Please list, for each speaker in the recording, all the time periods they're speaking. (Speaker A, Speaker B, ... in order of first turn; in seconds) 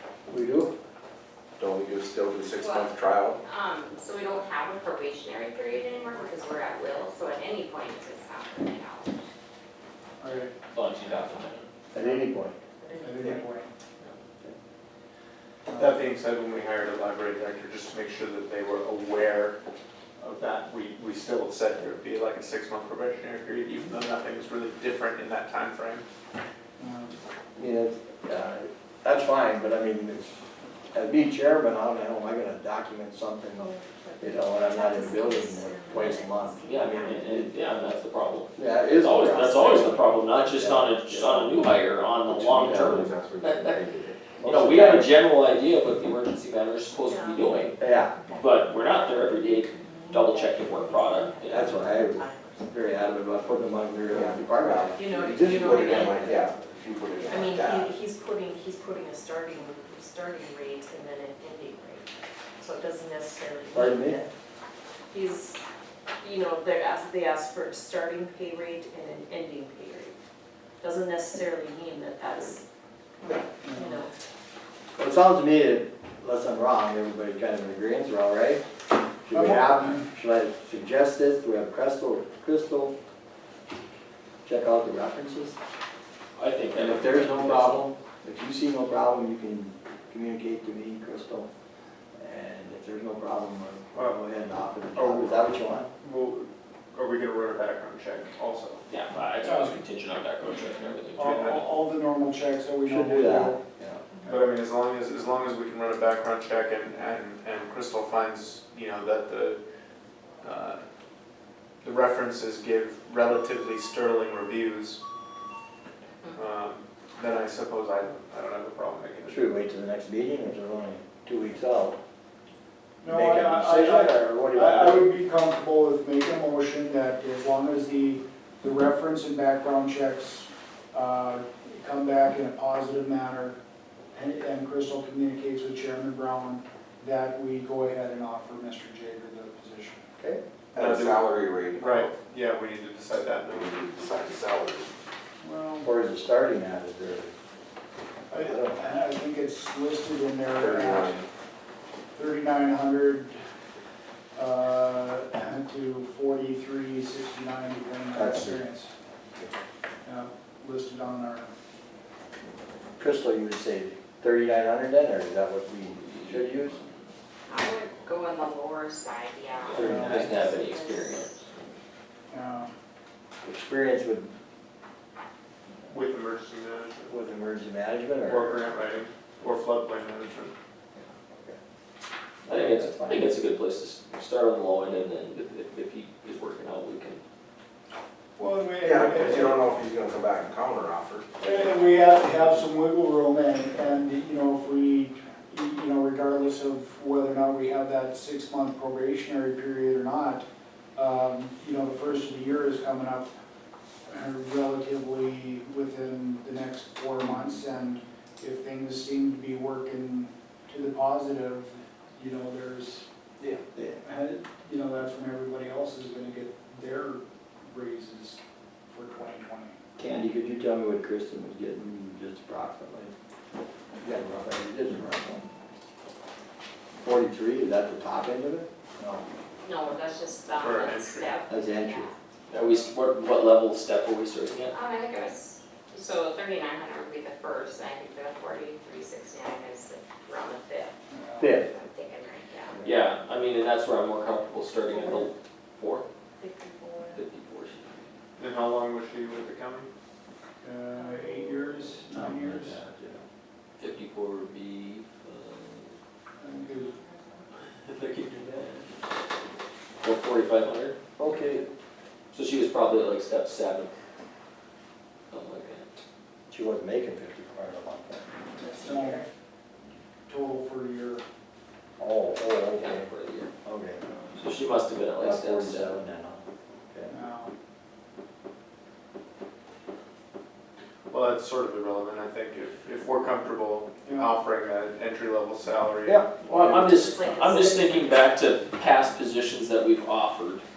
Speaker A: 0.3-0.8, 11.9-12.6, 27.6-37.5, 38.6-39.9, 40.5-41.5, 44.4-45.1, 47.8-48.1, 51.5-56.1, 63.7-64.2, 75.0-78.6, 79.2-82.9, 84.4-85.6, 86.7-91.5, 92.2-95.9, 102.8-104.1, 119.3-122.0, 123.0-125.1, 145.8-147.3, 148.3-148.9, 158.1-158.6, 163.0-166.8, 169.7-170.3, 173.4-174.3, 177.1-178.7, 182.4-183.3, 213.4-213.9, 220.0-223.1, 224.0-225.4, 227.0-229.2, 231.5-232.1, 241.4-241.7, 252.1-253.2, 261.2-261.7, 266.5-268.3, 272.0-273.1, 273.6-274.1, 275.2-277.2
Speaker B: 1.6-3.4, 42.3-44.2, 54.1-58.0, 140.7-142.1, 143.5-144.9, 150.5-151.3, 188.8-191.2
Speaker C: 2.5-9.2, 167.5-171.5, 229.6-232.2, 234.7-242.8
Speaker D: 10.2-10.5, 11.9-13.7, 15.7-16.0, 26.8-27.2, 73.6-74.0, 79.3-80.0, 99.4-99.8, 101.1-103.6, 123.0-133.6, 134.1-140.1, 145.4-145.9, 148.3-151.2, 152.1-153.4, 154.3-158.9, 160.0-161.5, 169.8-170.4, 172.3-172.7, 188.4-189.7, 191.4-203.3, 204.1-213.1, 213.8-219.8, 241.1-241.5, 250.6-252.8, 256.4-256.9, 268.8-269.2, 270.3-271.2, 277.1-277.5, 284.1-284.3
Speaker E: 10.7-11.7, 36.7-43.9, 44.4-47.8, 48.3-51.8, 86.3-87.9, 98.9-101.3, 165.9-166.9, 169.7-171.4, 182.5-187.2, 232.5-234.8, 242.8-246.0, 247.1-248.1, 253.8-255.9, 257.6-258.9, 260.0-261.0, 262.3-263.9, 265.3-265.9, 272.8-273.5, 274.4-275.9, 286.5-290.6
Speaker F: 12.6-13.7, 33.6-37.2, 39.2-40.5, 47.0-52.8, 54.9-56.5, 57.3-64.3, 65.1-65.6, 66.2-70.2, 70.8-72.6, 73.3-74.1, 244.9-245.3, 246.4-247.2, 268.6-269.3, 287.0-288.4
Speaker G: 15.8-19.6, 20.2-26.0, 94.9-98.8, 101.2-101.6, 104.2-109.6, 110.4-110.8, 111.8-115.0, 116.3-119.5, 140.8-144.0, 175.9-177.2, 178.2-180.5, 230.6-231.3, 248.4-249.9, 281.1-286.6